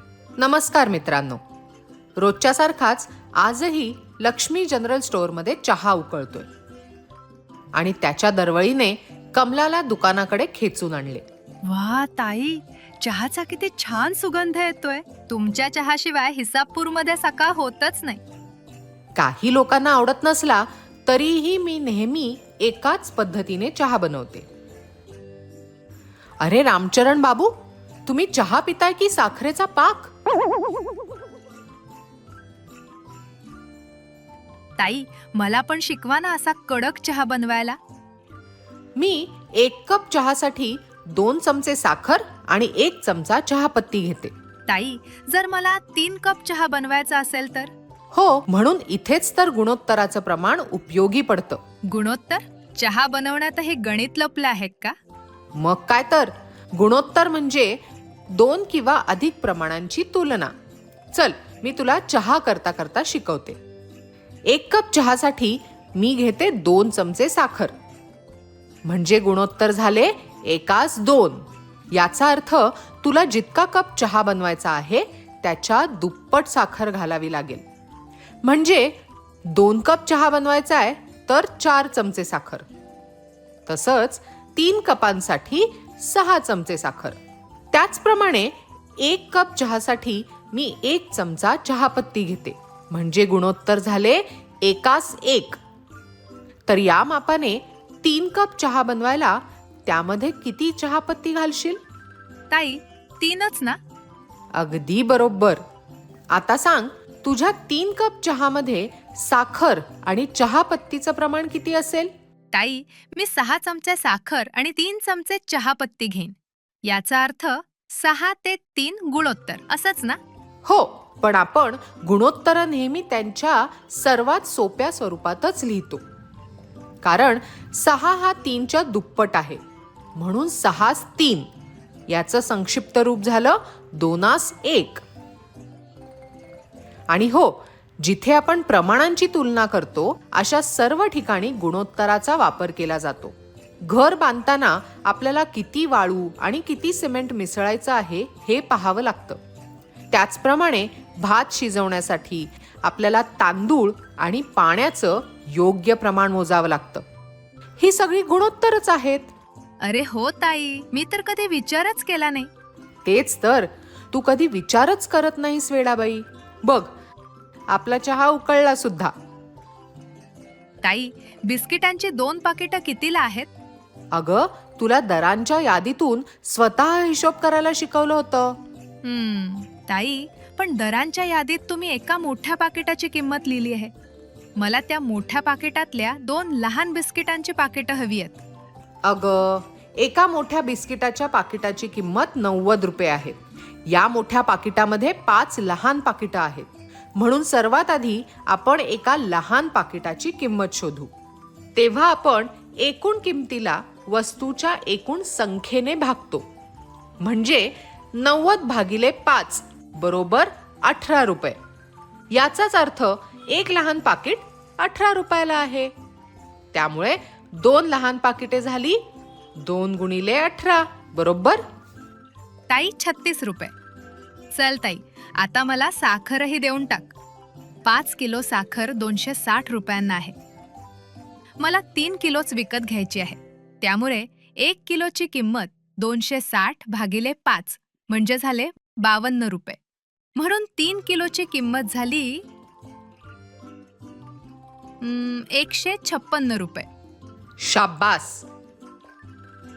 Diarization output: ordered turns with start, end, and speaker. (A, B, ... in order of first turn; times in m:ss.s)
0:00.4-0:01.4 A
0:02.2-0:06.5 A
0:07.7-0:11.2 A
0:11.6-0:18.2 B
0:19.1-0:24.5 A
0:26.4-0:30.1 A
0:34.8-0:37.8 B
0:39.0-0:44.3 A
0:44.7-0:47.7 B
0:48.1-0:51.6 A
0:51.9-0:55.0 B
0:55.5-1:00.5 A
1:01.1-1:03.6 A
1:04.5-1:07.8 A
1:08.8-1:17.6 A
1:18.4-1:22.7 A
1:23.7-1:27.2 A
1:27.7-1:35.6 A
1:36.7-1:41.8 A
1:42.5-1:43.8 B
1:44.5-1:45.6 A
1:46.3-1:52.1 A
1:52.5-2:00.2 B
2:00.6-2:06.0 A
2:07.0-2:09.6 A
2:10.1-2:11.5 A
2:12.1-2:15.0 A
2:17.1-2:29.4 A
2:30.1-2:37.0 A
2:37.8-2:39.3 A
2:39.8-2:42.5 B
2:43.0-2:46.9 A
2:47.7-2:49.1 A
2:50.8-2:53.5 B
2:54.1-2:58.6 A
2:59.0-3:03.9 B
3:04.6-3:08.4 B
3:09.0-3:21.1 A
3:21.8-3:26.5 A
3:27.2-3:31.6 A
3:32.3-3:35.9 A
3:36.7-3:39.0 A
3:39.6-3:41.6 A
3:42.7-3:43.7 B
3:44.5-3:47.1 B
3:47.8-3:50.4 B
3:51.6-3:59.8 B
4:00.3-4:02.4 B
4:05.0-4:06.9 B
4:07.6-4:08.4 A